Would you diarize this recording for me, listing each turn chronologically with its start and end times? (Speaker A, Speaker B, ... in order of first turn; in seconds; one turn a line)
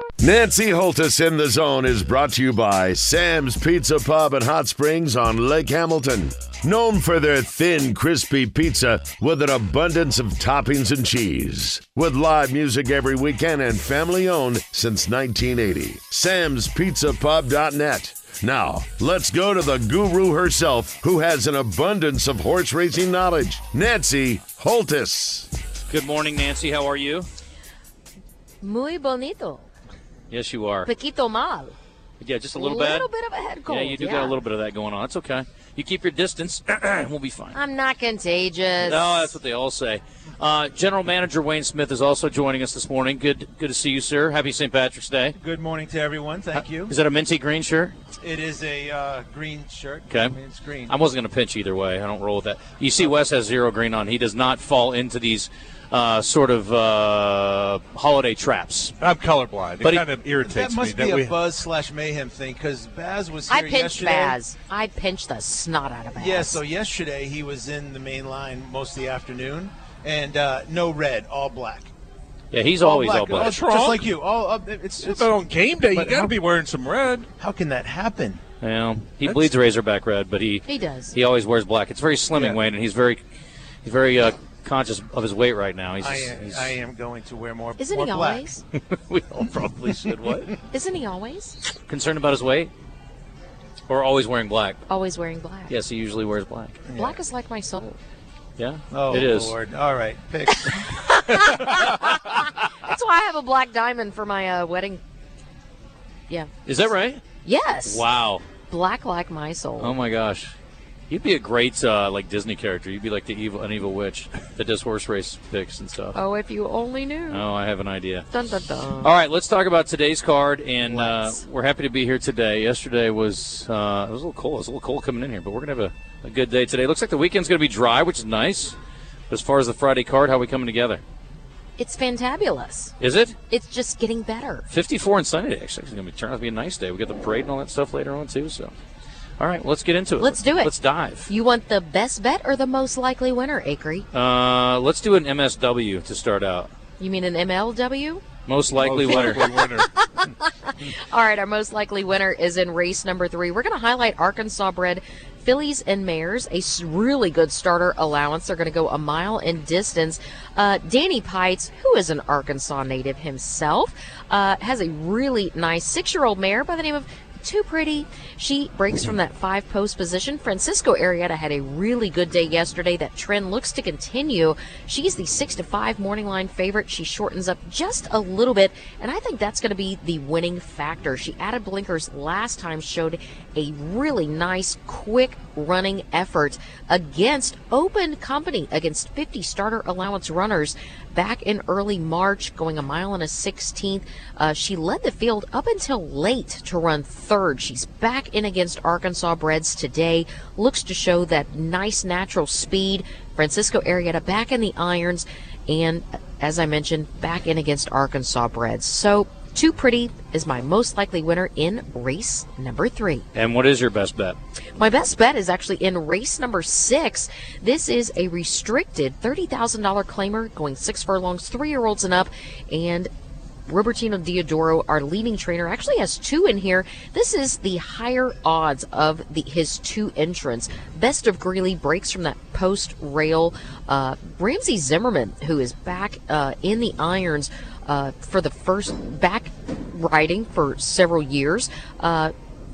Speaker A: 0.2-25.5
Speaker B: 25.9-27.3
Speaker C: 28.6-29.7
Speaker B: 30.3-30.9
Speaker C: 30.8-31.8
Speaker B: 32.2-33.1
Speaker C: 32.5-34.4
Speaker B: 33.6-37.6
Speaker C: 37.5-39.4
Speaker B: 38.8-45.4
Speaker D: 45.4-46.9
Speaker B: 46.5-47.9
Speaker D: 48.2-50.9
Speaker B: 50.1-59.0
Speaker E: 59.0-61.4
Speaker D: 60.4-64.4
Speaker C: 63.5-66.6
Speaker D: 66.2-71.9
Speaker B: 72.5-73.6
Speaker D: 72.8-75.3
Speaker E: 73.4-74.1
Speaker E: 75.0-77.3
Speaker D: 75.8-76.4
Speaker D: 77.4-78.4
Speaker B: 78.6-83.2
Speaker E: 79.2-79.5
Speaker C: 80.7-81.2
Speaker D: 82.3-82.6
Speaker B: 83.8-86.8
Speaker D: 86.0-88.4
Speaker C: 87.8-88.6
Speaker B: 88.8-90.5
Speaker C: 90.7-91.6
Speaker B: 91.9-92.7
Speaker B: 93.9-94.8
Speaker C: 94.9-95.7
Speaker B: 95.7-96.8
Speaker D: 96.8-97.2
Speaker C: 96.9-98.0
Speaker B: 98.6-99.6
Speaker D: 98.9-100.9
Speaker C: 100.5-105.0
Speaker C: 106.3-106.7
Speaker B: 106.7-107.2
Speaker C: 107.4-108.0
Speaker B: 107.8-108.4
Speaker C: 108.7-110.0
Speaker B: 109.8-110.5
Speaker B: 111.1-116.2
Speaker C: 116.1-117.4
Speaker B: 117.3-118.3
Speaker C: 118.3-119.1
Speaker B: 119.0-128.8
Speaker C: 120.8-121.4
Speaker B: 129.3-131.0
Speaker C: 131.8-132.9
Speaker B: 133.0-133.3
Speaker C: 133.5-134.7
Speaker B: 134.7-138.7
Speaker B: 139.4-141.3
Speaker C: 140.2-140.7
Speaker C: 141.2-144.1
Speaker B: 144.1-146.7
Speaker C: 147.0-148.2
Speaker B: 148.4-149.5
Speaker E: 148.7-149.9
Speaker C: 149.1-213.2
Speaker B: 213.3-214.4
Speaker C: 214.8-223.1
Speaker C: 223.7-242.3